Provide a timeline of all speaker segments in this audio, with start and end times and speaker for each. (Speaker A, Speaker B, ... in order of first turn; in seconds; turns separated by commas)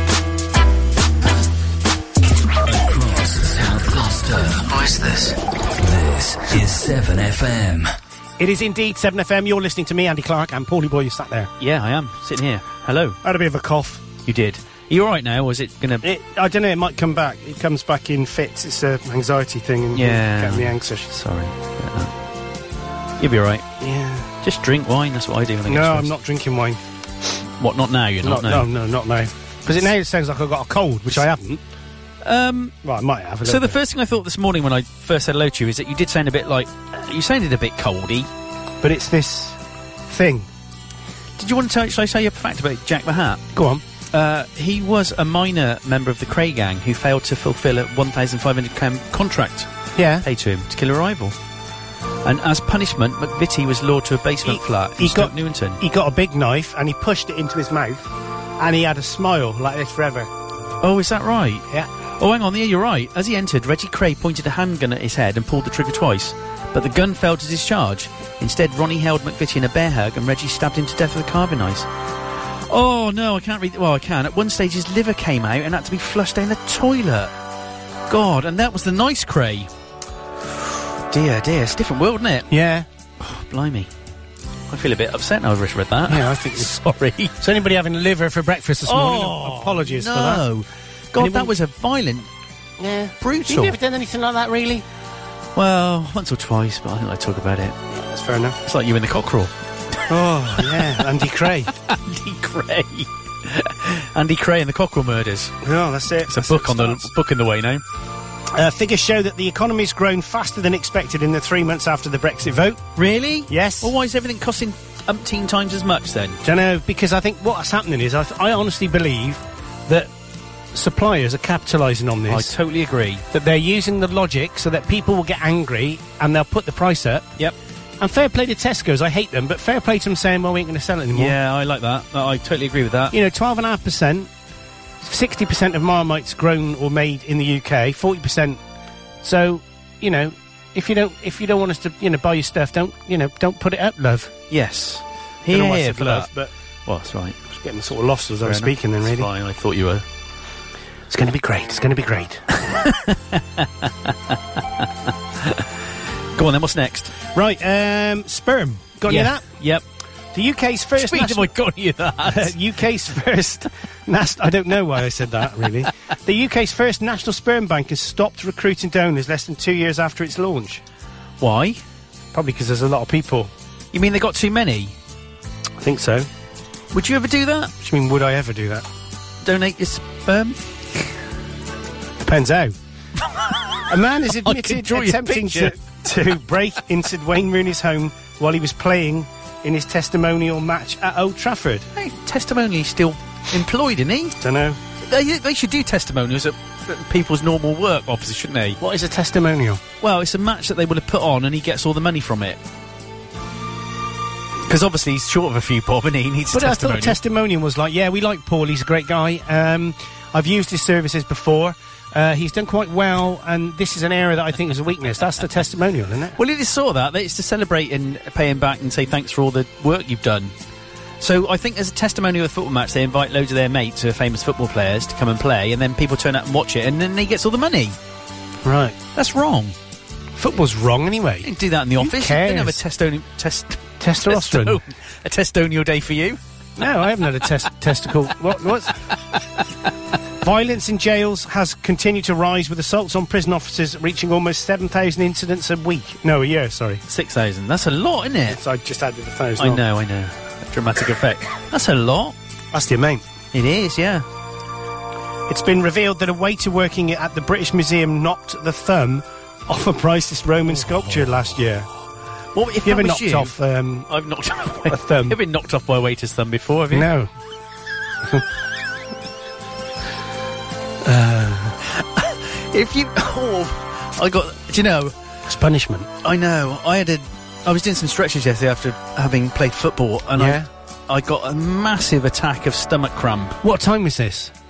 Speaker A: 2.6-7.9, Speaker B: 8.4-11.5, Speaker C: 11.6-13.2, Speaker B: 13.2-14.1, Speaker C: 14.2-16.1, Speaker B: 16.0-21.1, Speaker C: 19.9-22.1, Speaker C: 23.2-23.7, Speaker B: 23.8-24.3, Speaker C: 24.4-26.1, Speaker B: 25.7-26.8, Speaker C: 27.6-28.7, Speaker B: 28.2-31.6, Speaker C: 32.2-32.8, Speaker B: 32.8-33.8, Speaker C: 33.4-38.3, Speaker B: 38.8-40.5, Speaker C: 41.4-43.4, Speaker B: 43.5-43.8, Speaker C: 44.1-51.4, Speaker B: 50.0-50.3, Speaker C: 52.2-55.8, Speaker B: 54.5-60.3, Speaker C: 60.8-61.7, Speaker C: 62.2-71.9, Speaker C: 72.7-77.3, Speaker C: 78.1-79.7, Speaker C: 81.1-82.5, Speaker B: 82.5-82.9, Speaker C: 83.2-83.9, Speaker C: 84.7-87.4, Speaker B: 86.1-86.8, Speaker B: 87.4-90.4, Speaker C: 88.9-92.3, Speaker B: 91.2-91.5, Speaker B: 92.8-94.9, Speaker C: 93.2-93.8, Speaker C: 95.5-97.8, Speaker B: 97.9-98.6, Speaker C: 98.7-99.5, Speaker B: 100.1-101.7, Speaker C: 100.6-101.0, Speaker C: 101.7-105.5, Speaker B: 105.6-107.1, Speaker C: 106.3-107.8, Speaker B: 108.5-112.9, Speaker C: 113.0-116.4, Speaker B: 113.5-113.9, Speaker B: 116.4-120.1, Speaker B: 120.7-122.5, Speaker C: 122.3-123.2, Speaker B: 123.3-127.3, Speaker B: 128.0-131.4, Speaker C: 131.1-133.2, Speaker B: 133.1-134.3, Speaker B: 135.0-138.6, Speaker B: 139.2-144.3, Speaker C: 144.5-146.3, Speaker B: 145.5-146.5, Speaker C: 146.9-147.4, Speaker B: 147.5-149.3, Speaker C: 148.4-150.1, Speaker B: 151.1-152.4, Speaker C: 152.5-154.9, Speaker C: 155.4-155.7, Speaker C: 156.3-157.2, Speaker B: 157.3-159.5, Speaker C: 159.1-159.8, Speaker B: 160.3-161.5, Speaker C: 161.0-162.5, Speaker B: 162.2-170.8, Speaker C: 171.4-171.8, Speaker B: 172.3-173.5, Speaker C: 173.9-174.9, Speaker B: 175.8-176.3, Speaker C: 176.9-177.7, Speaker B: 177.8-178.9, Speaker C: 179.4-181.1, Speaker B: 182.2-182.8, Speaker B: 183.9-191.9, Speaker C: 184.3-185.8, Speaker C: 192.0-194.4, Speaker B: 194.4-194.8, Speaker C: 195.0-198.8, Speaker B: 198.8-199.8, Speaker C: 200.0-202.6, Speaker C: 204.7-207.2, Speaker B: 206.5-216.4, Speaker C: 216.4-220.5, Speaker C: 221.2-228.0, Speaker B: 228.6-229.0, Speaker C: 229.2-229.8, Speaker B: 230.4-232.8, Speaker C: 231.4-236.4, Speaker B: 234.0-234.8, Speaker B: 236.8-239.0, Speaker B: 240.4-247.0, Speaker C: 247.1-248.6, Speaker B: 248.5-249.8, Speaker C: 249.6-252.3, Speaker B: 252.7-253.3, Speaker C: 253.5-254.2, Speaker B: 255.5-261.9, Speaker C: 260.9-261.3, Speaker C: 262.6-263.6, Speaker B: 262.8-264.1, Speaker C: 264.1-267.1, Speaker B: 264.9-265.4, Speaker B: 266.9-267.3, Speaker B: 271.0-271.8, Speaker C: 271.9-275.1, Speaker B: 275.5-276.1, Speaker C: 276.2-283.6, Speaker B: 280.4-280.7, Speaker B: 283.6-284.5